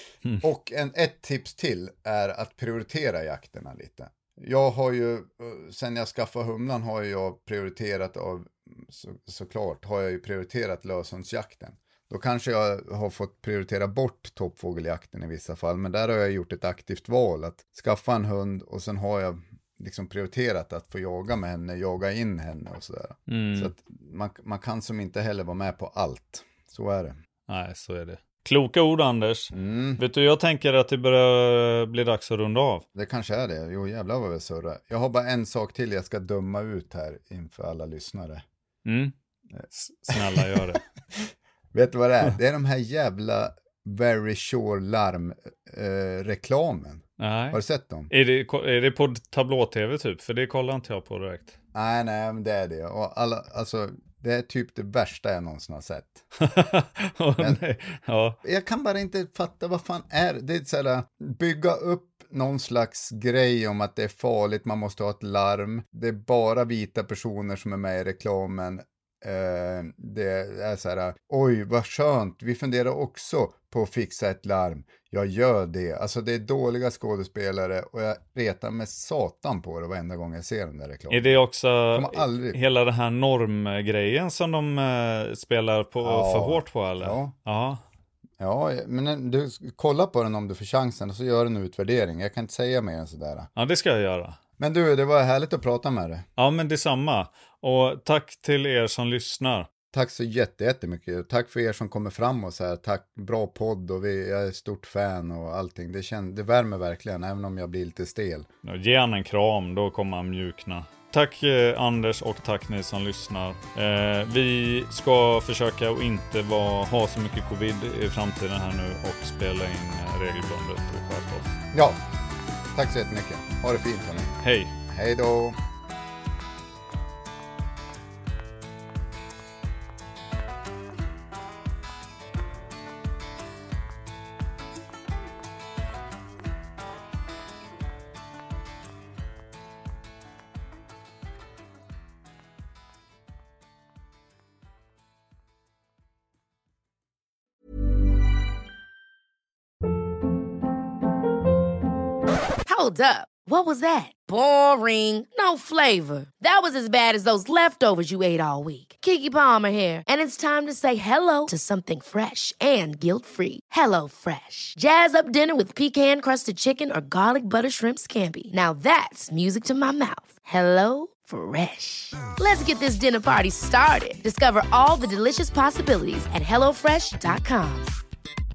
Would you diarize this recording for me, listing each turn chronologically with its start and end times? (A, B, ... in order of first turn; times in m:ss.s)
0:00.4-0:27.2 A
0:23.3-0:23.7 B
0:27.5-0:32.9 B
0:29.5-0:30.0 A
0:33.0-0:38.4 A
0:38.8-0:39.1 B
0:39.6-0:40.6 A
0:39.7-0:40.8 B
0:41.1-0:48.1 A
0:47.2-0:51.6 B
0:51.7-0:56.3 A
0:56.4-0:58.4 B
0:58.4-1:21.3 A
1:21.1-1:27.8 B
1:21.9-1:22.6 A
1:26.0-1:27.3 A
1:28.4-1:33.5 A
1:33.6-1:34.4 B
1:34.6-1:36.3 A
1:36.4-1:39.7 B
1:39.9-1:48.5 A
1:48.6-2:01.6 B
2:01.7-2:02.0 A
2:02.7-2:05.6 A
2:04.4-2:04.8 B
2:32.6-2:57.9 C